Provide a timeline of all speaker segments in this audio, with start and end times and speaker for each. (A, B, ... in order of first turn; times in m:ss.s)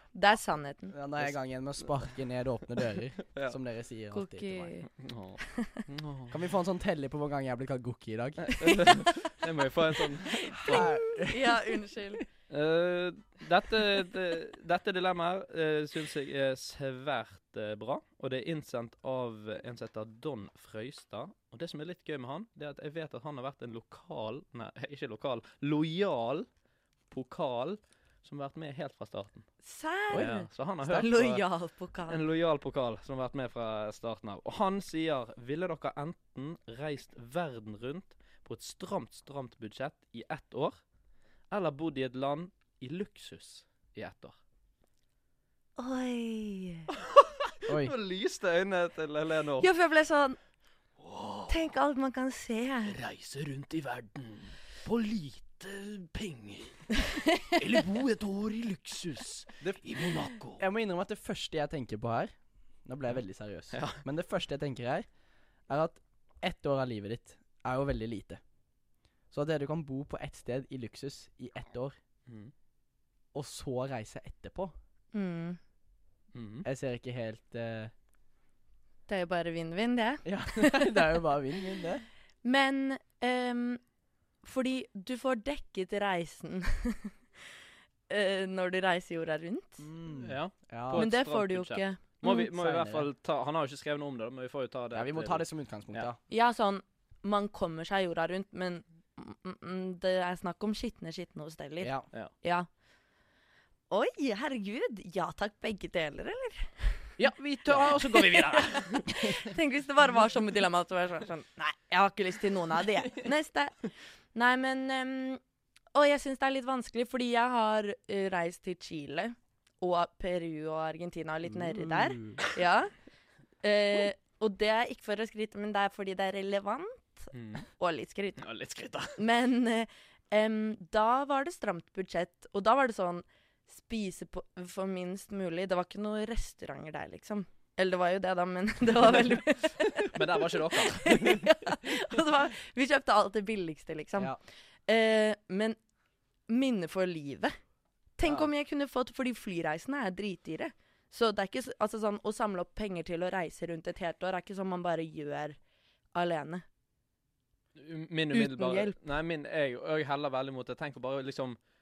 0:00.1-0:01.0 A
0:00.9-0:04.7 B
0:04.1-0:04.9 A
0:05.0-0:06.4 C
0:05.5-0:05.8 A
0:06.3-0:08.9 B
0:08.4-0:11.0 C
0:10.6-0:11.6 B
0:10.8-0:12.2 A
0:12.5-0:26.5 C
0:27.1-0:29.5 C
0:29.6-0:32.2 A
0:30.1-0:31.4 C
0:32.1-0:40.8 C
0:41.5-0:44.4 C
0:45.8-0:46.9 A
0:46.9-0:49.7 C
0:47.7-0:47.9 B
0:49.6-0:50.4 A
0:51.0-0:51.5 C
0:51.5-0:53.0 A
0:52.9-1:00.6 C
1:00.6-1:02.3 B
1:02.8-1:05.1 B
1:03.7-1:04.0 C
1:05.7-1:08.4 B
1:09.3-1:12.0 B
1:12.3-1:12.5 C
1:13.3-1:14.7 B
1:15.1-1:15.6 A
1:16.3-1:16.7 C
1:16.6-1:17.9 B
1:19.1-1:21.2 A
1:20.2-1:22.0 B
1:22.4-1:23.8 A
1:24.4-1:27.2 A
1:28.1-1:29.9 A
1:29.8-1:31.1 B
1:30.2-1:36.1 C
1:30.9-1:32.5 A
1:32.5-1:33.1 B
1:34.9-1:36.2 B
1:36.3-1:42.7 A
1:41.8-1:42.1 B
1:43.9-1:47.1 A
1:47.2-1:49.2 C
1:47.7-1:48.0 B
1:47.8-1:53.8 A
1:54.3-1:55.4 A
1:55.9-2:02.9 A
2:01.7-2:02.4 B
2:03.6-2:08.4 A
2:07.3-2:07.7 C
2:08.4-2:09.2 C
2:09.2-2:24.4 A
2:19.8-2:21.6 C
2:24.9-2:25.8 A
2:26.5-2:27.6 A
2:28.2-2:35.6 A
2:36.1-2:36.6 A
2:37.8-2:41.6 C
2:38.3-2:39.0 A